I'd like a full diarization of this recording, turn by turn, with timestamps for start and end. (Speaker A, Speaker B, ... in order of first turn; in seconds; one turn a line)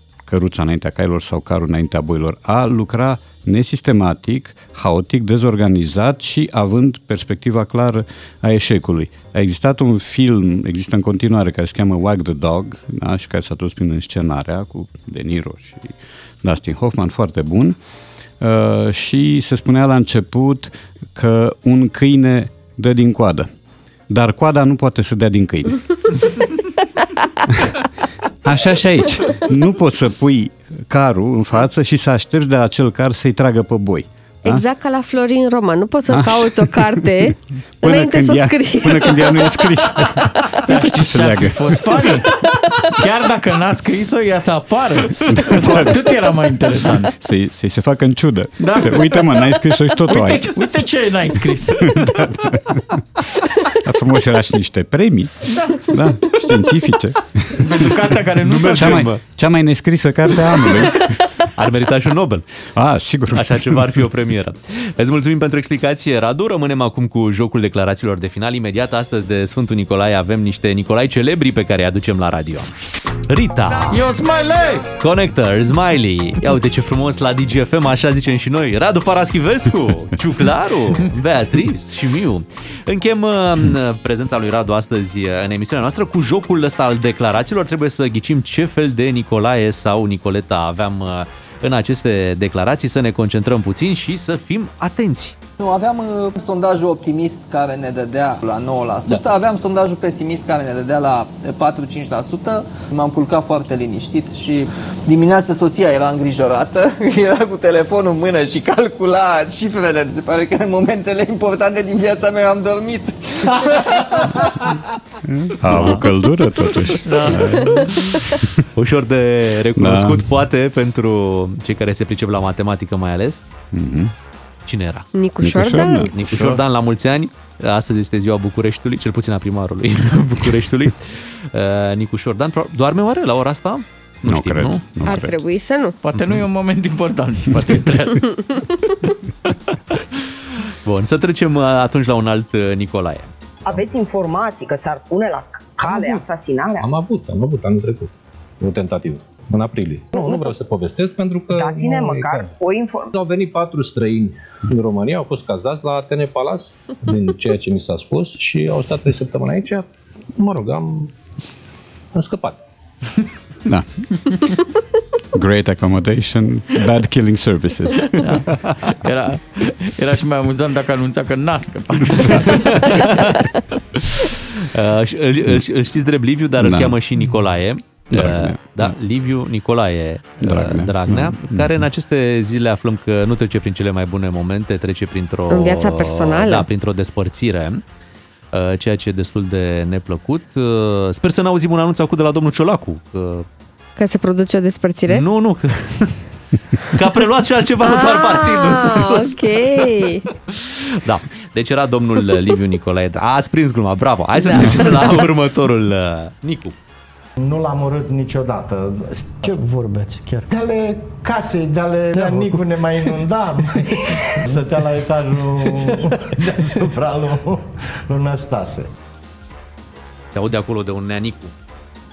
Speaker A: 0.2-17.8
Speaker A: 18.4-23.5
Speaker A: 24.1-26.2
Speaker A: 27.5-27.7
Speaker A: 28.4-34.6
Speaker B: 34.5-39.7
Speaker A: 36.1-42.3
Speaker C: 40.6-47.1
Speaker A: 45.3-46.1
Speaker A: 47.1-50.7
Speaker C: 48.6-52.0
Speaker A: 51.8-53.0
Speaker A: 53.7-58.1
Speaker C: 57.5-59.1
Speaker D: 58.4-59.2
Speaker A: 58.7-61.1
Speaker D: 61.4-62.5
Speaker A: 62.7-64.0
Speaker D: 63.3-72.7
Speaker D: 73.3-74.0
Speaker C: 73.9-74.8
Speaker D: 75.0-95.4
Speaker E: 95.6-114.8
Speaker A: 115.2-118.6
Speaker D: 115.7-116.0
Speaker C: 117.0-118.1
Speaker D: 118.7-123.4
Speaker A: 119.7-120.3
Speaker A: 123.7-124.1
Speaker D: 124.7-125.1
Speaker B: 125.1-126.1
Speaker A: 125.4-126.1
Speaker D: 126.1-134.8
Speaker C: 126.2-126.6
Speaker A: 134.2-135.4
Speaker B: 135.0-135.9
Speaker C: 136.0-138.8
Speaker D: 140.8-143.3
Speaker F: 143.7-146.9
Speaker G: 145.8-146.2
Speaker G: 146.8-152.5
Speaker F: 151.5-153.1
Speaker G: 153.1-161.1
Speaker G: 162.1-162.6
Speaker A: 163.7-164.3
Speaker A: 165.3-168.4
Speaker C: 168.2-173.1
Speaker D: 172.3-187.8
Speaker A: 176.6-177.0
Speaker A: 178.1-178.9
Speaker A: 180.4-181.8
Speaker B: 185.5-186.7
Speaker D: 188.5-193.4
Speaker B: 194.0-195.2
Speaker D: 195.1-196.2
Speaker D: 196.8-206.8
Speaker B: 197.8-200.2
Speaker C: 204.4-205.2
Speaker H: 207.4-209.6
Speaker C: 209.4-210.5
Speaker H: 210.5-218.9
Speaker C: 212.1-213.1
Speaker C: 214.1-214.7
Speaker D: 220.3-221.5